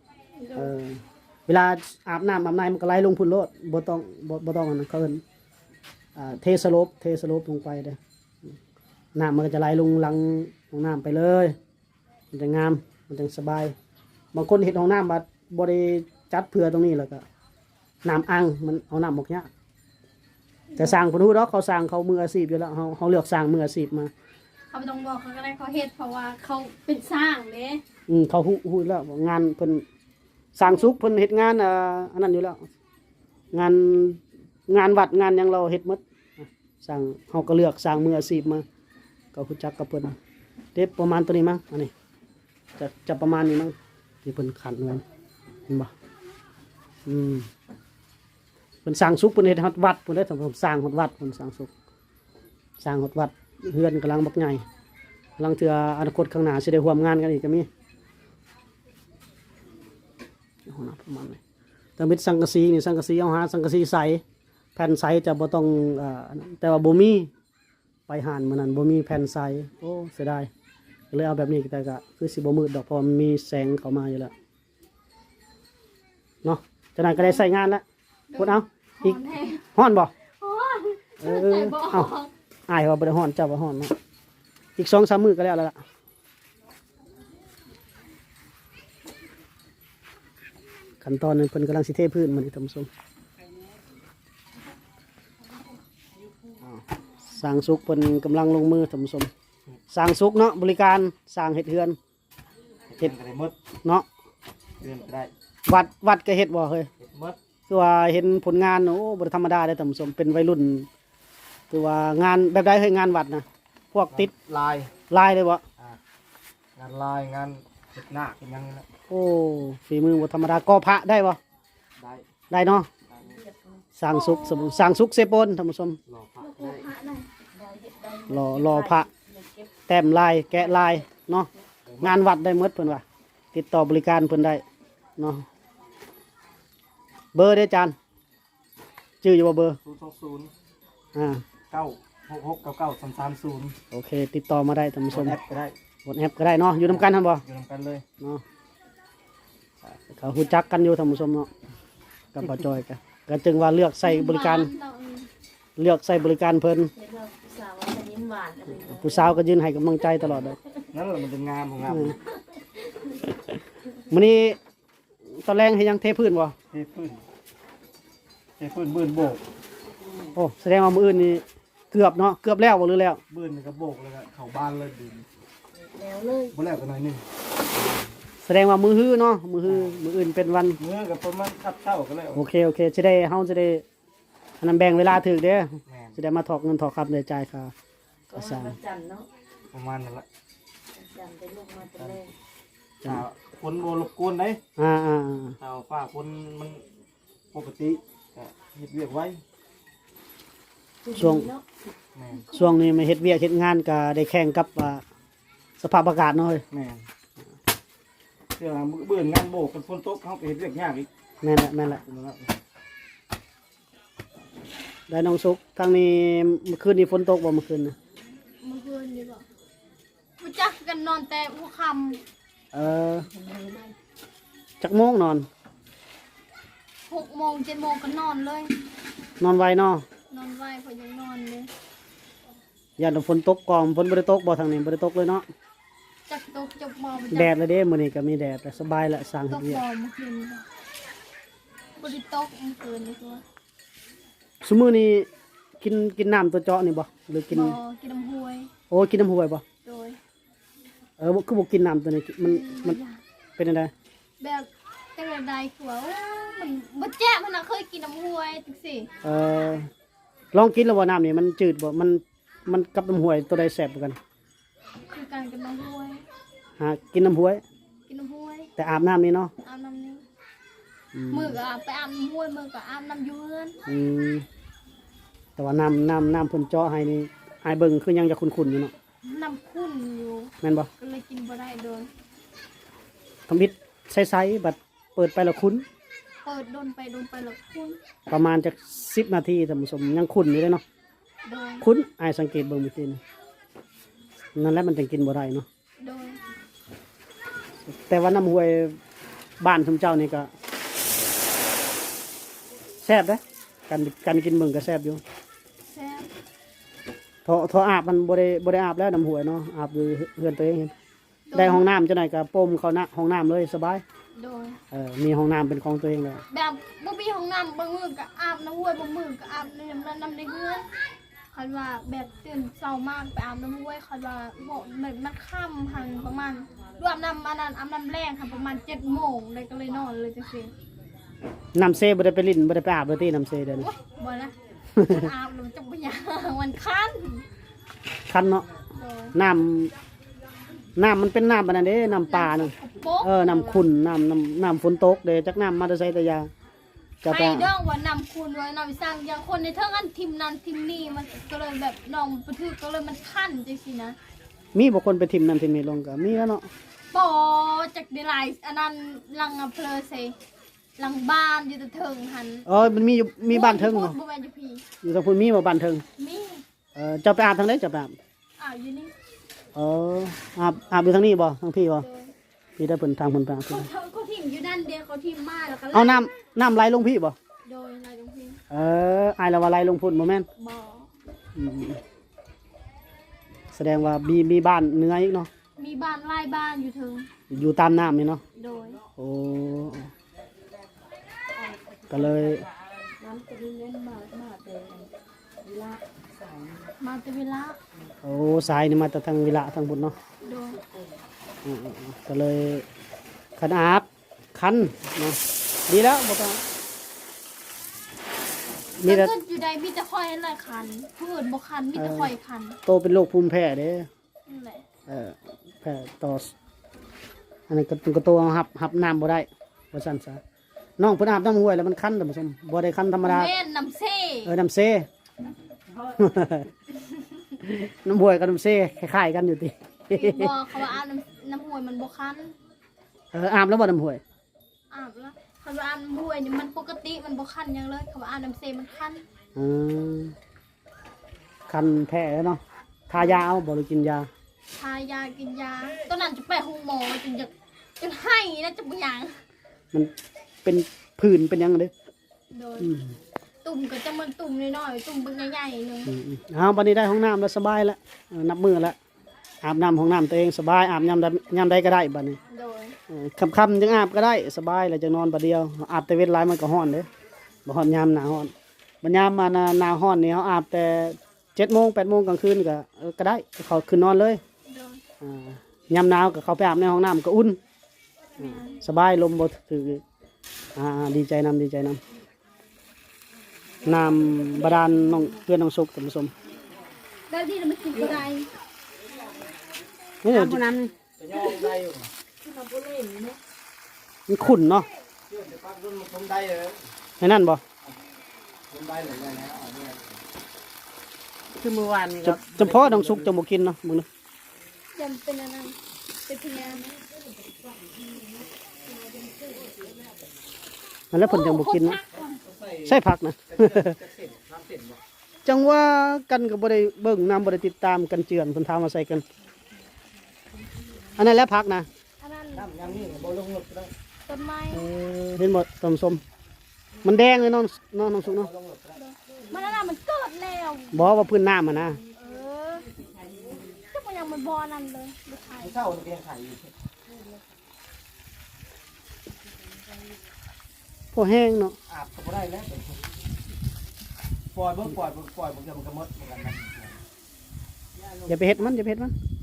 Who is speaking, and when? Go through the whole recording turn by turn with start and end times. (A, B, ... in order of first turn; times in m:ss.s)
0:00.4-0:00.7 A
0:00.6-0:05.2 B
0:06.2-0:08.0 B
0:09.2-0:11.5 B
0:12.3-0:13.7 B
0:14.3-0:17.2 B
0:18.0-0:19.5 B
0:20.7-0:21.0 A
0:20.8-0:24.1 B
0:24.7-0:27.8 A
0:28.1-0:29.8 B
0:30.6-0:32.6 B
0:33.5-0:38.6 B
0:39.3-0:40.1 B
0:40.8-0:41.9 B
0:42.8-0:45.0 B
0:47.1-0:47.5 B
0:48.8-0:51.7 B
0:52.8-0:54.6 B
0:55.4-0:57.7 B
1:00.7-1:01.4 B
1:02.0-1:04.2 B
1:04.8-1:07.3 B
1:08.1-1:10.5 B
1:11.1-1:14.3 B
1:16.4-1:17.8 B
1:18.3-1:19.7 A
1:18.4-1:19.2 B
1:19.8-1:20.1 B
1:20.4-1:22.3 A
1:21.2-1:22.1 B
1:22.7-1:24.0 B
1:24.8-1:25.8 B
1:31.0-1:32.9 B
1:36.6-1:39.3 B
1:39.9-1:42.0 B
1:42.9-1:43.6 C
1:44.8-1:45.3 C
1:45.7-1:46.9 B
1:47.0-1:47.4 C
1:47.7-1:50.9 B
1:51.7-1:54.3 B
1:54.1-1:54.9 C
1:55.1-1:55.6 B
1:56.8-1:58.9 C
1:59.1-2:01.4 B
2:02.0-2:02.3 C
2:02.5-2:02.9 B
2:03.1-2:03.4 C
2:03.3-2:03.8 D
2:04.0-2:06.0 B
2:04.1-2:04.9 A
2:06.1-2:06.8 C
2:06.4-2:07.3 A
2:07.5-2:09.7 D
2:08.3-2:09.1 B
2:09.9-2:11.5 B
2:11.9-2:12.1 C
2:12.0-2:14.6 B
2:15.2-2:15.4 B
2:17.3-2:18.0 B
2:19.2-2:19.8 B
2:19.8-2:20.5 C
2:21.2-2:21.4 B
2:21.7-2:23.8 C
2:23.9-2:25.4 B
2:25.1-2:25.8 C
2:26.1-2:27.4 B
2:27.3-2:28.0 C
2:29.8-2:31.5 B
2:32.3-2:34.7 B
2:34.0-2:35.3 A
2:35.8-2:36.9 B
2:37.0-2:39.1 D
2:38.8-2:40.6 B
2:40.9-2:42.2 C
2:41.9-2:42.2 B
2:44.1-2:44.6 B
2:45.3-2:46.6 B
2:46.7-2:47.2 C
2:48.6-2:49.4 C
2:50.4-2:53.2 B
2:53.3-2:55.3 C
2:55.8-2:56.5 D
2:56.5-2:57.2 C
2:57.8-2:58.1 C
2:58.4-3:00.8 B
2:59.7-3:00.0 C
3:00.8-3:02.4 C
3:02.4-3:03.8 B
3:04.6-3:07.7 B
3:05.9-3:06.2 C
3:08.3-3:09.3 D
3:08.3-3:08.8 B
3:09.7-3:10.3 C
3:11.0-3:12.3 D
3:11.9-3:12.2 C
3:13.0-3:14.6 C
3:14.8-3:15.6 B
3:15.6-3:16.8 C
3:17.5-3:19.4 C
3:21.0-3:21.7 D
3:21.1-3:21.5 B
3:22.2-3:22.5 C
3:22.5-3:25.0 B
3:25.8-3:26.6 B
3:26.7-3:27.1 C
3:28.6-3:31.1 C
3:31.4-3:32.0 B
3:32.0-3:32.5 C
3:35.1-3:38.0 B
3:38.6-3:39.4 A
3:40.4-3:42.2 A
3:42.7-3:43.3 B
3:43.3-3:43.9 D
3:44.8-3:45.5 B
3:47.1-3:48.7 A
3:49.4-3:50.0 B
3:50.3-3:51.7 A
3:53.0-3:55.4 B
3:56.3-3:57.5 A
3:57.3-3:59.8 B
3:59.5-4:00.7 A
4:02.0-4:03.4 A
4:04.6-4:05.3 B
4:05.8-4:07.8 B
4:07.5-4:08.7 A
4:08.9-4:09.6 B
4:09.8-4:10.2 A
4:11.2-4:13.0 B
4:12.4-4:13.2 A
4:13.6-4:13.9 B
4:14.4-4:19.1 A
4:19.2-4:19.9 B
4:20.5-4:24.2 B
4:25.1-4:26.2 A
4:26.8-4:27.6 B
4:28.1-4:28.7 A
4:28.8-4:29.5 B
4:29.6-4:30.2 A
4:31.1-4:31.6 B
4:31.3-4:33.8 A
4:33.9-4:34.5 B
4:35.6-4:38.9 B
4:39.2-4:42.1 A
4:40.6-4:40.9 B
4:43.5-4:45.8 B
4:46.4-4:48.0 A
4:48.3-4:50.8 B
4:51.4-4:51.9 A
4:51.8-4:53.2 B
4:54.6-4:55.7 B
4:56.0-4:56.4 A
4:57.9-4:59.0 B
4:59.6-5:00.5 B
5:03.0-5:05.2 B
5:05.8-5:06.3 A
5:07.4-5:10.9 B
5:11.5-5:11.8 A
5:11.6-5:14.0 B
5:14.4-5:14.8 A
5:14.9-5:16.4 B
5:16.5-5:20.9 A
5:21.5-5:30.7 A
5:31.8-5:33.9 B
5:33.8-5:37.5 A
5:35.0-5:35.3 B
5:38.3-5:38.7 B
5:39.0-5:39.4 A
5:39.3-5:39.9 B
5:41.0-5:46.5 B
5:42.3-5:43.8 A
5:47.2-5:47.7 B
5:47.3-5:54.2 A
5:54.7-5:56.7 B
5:57.1-6:00.4 A
6:01.0-6:02.7 A
6:02.7-6:04.2 B
6:03.5-6:04.8 A
6:05.0-6:06.0 B
6:06.2-6:06.6 A
6:07.0-6:08.2 B
6:08.6-6:09.1 A
6:09.8-6:12.1 B
6:12.0-6:12.3 A
6:12.8-6:13.9 B
6:13.7-6:16.3 A
6:15.9-6:17.4 B
6:17.6-6:18.6 A
6:18.7-6:20.5 B
6:20.6-6:21.1 A
6:21.6-6:22.0 B
6:23.7-6:25.5 B
6:25.8-6:27.3 A
6:27.5-6:28.4 B
6:28.6-6:29.0 A
6:29.2-6:30.1 B
6:31.6-6:32.7 D
6:32.1-6:32.7 B
6:33.2-6:35.1 D
6:35.6-6:36.9 D
6:37.0-6:37.8 A
6:38.2-6:40.2 B
6:40.4-6:40.8 A
6:41.6-6:42.9 B
6:43.6-6:46.6 B
6:49.0-6:49.3 B
6:49.0-6:52.8 A
6:52.0-6:52.3 B
6:52.9-6:54.1 B
6:54.5-6:54.8 A
6:55.1-6:56.5 B
6:57.7-7:00.4 B
7:01.0-7:03.5 B
7:03.2-7:04.5 A
7:04.4-7:05.1 B
7:06.1-7:06.7 B
7:06.9-7:07.5 A
7:07.6-7:10.6 B
7:10.1-7:12.6 A
7:13.3-7:14.2 B
7:14.9-7:19.2 A
7:19.6-7:20.4 B
7:21.7-7:24.3 B
7:24.7-7:29.4 A
7:30.6-7:31.9 B
7:32.5-7:32.9 A
7:32.8-7:33.2 B
7:33.6-7:36.1 A
7:36.1-7:39.0 B
7:39.6-7:42.4 B
7:42.5-7:43.0 A
7:43.1-7:47.1 B
7:47.7-7:54.4 B
7:54.7-7:55.0 A
7:55.2-7:57.6 B
7:58.4-7:58.8 A
7:58.4-8:00.0 B
8:00.8-8:02.0 B
8:03.8-8:05.3 D
8:03.8-8:06.3 B
8:07.3-8:08.5 A
8:08.0-8:08.2 C
8:10.2-8:10.7 B
8:10.3-8:10.9 D
8:11.2-8:12.1 C
8:12.4-8:13.4 D
8:14.3-8:14.9 B
8:15.3-8:16.8 C
8:17.2-8:17.6 B
8:18.7-8:20.2 C
8:21.6-8:23.3 C
8:22.2-8:24.1 B
8:24.9-8:26.9 A
8:29.1-8:29.6 D
8:31.1-8:32.0 B
8:31.2-8:32.4 A
8:32.5-8:33.0 C
8:32.8-8:34.0 B
8:33.5-8:35.0 C
8:35.4-8:39.2 B
8:41.2-8:41.9 B
8:42.2-8:42.9 A
8:42.5-8:43.9 C
8:44.3-8:44.9 A
8:44.7-8:46.2 B
8:47.0-8:48.5 B
8:48.3-8:49.0 C
8:48.9-8:51.0 A
8:50.9-8:52.0 B
8:52.2-8:52.9 A
8:53.9-8:55.8 A
8:55.6-8:56.7 C
9:01.1-9:01.8 B
9:01.9-9:03.0 C
9:04.5-9:07.0 C
9:08.0-9:08.3 C
9:08.3-9:09.2 B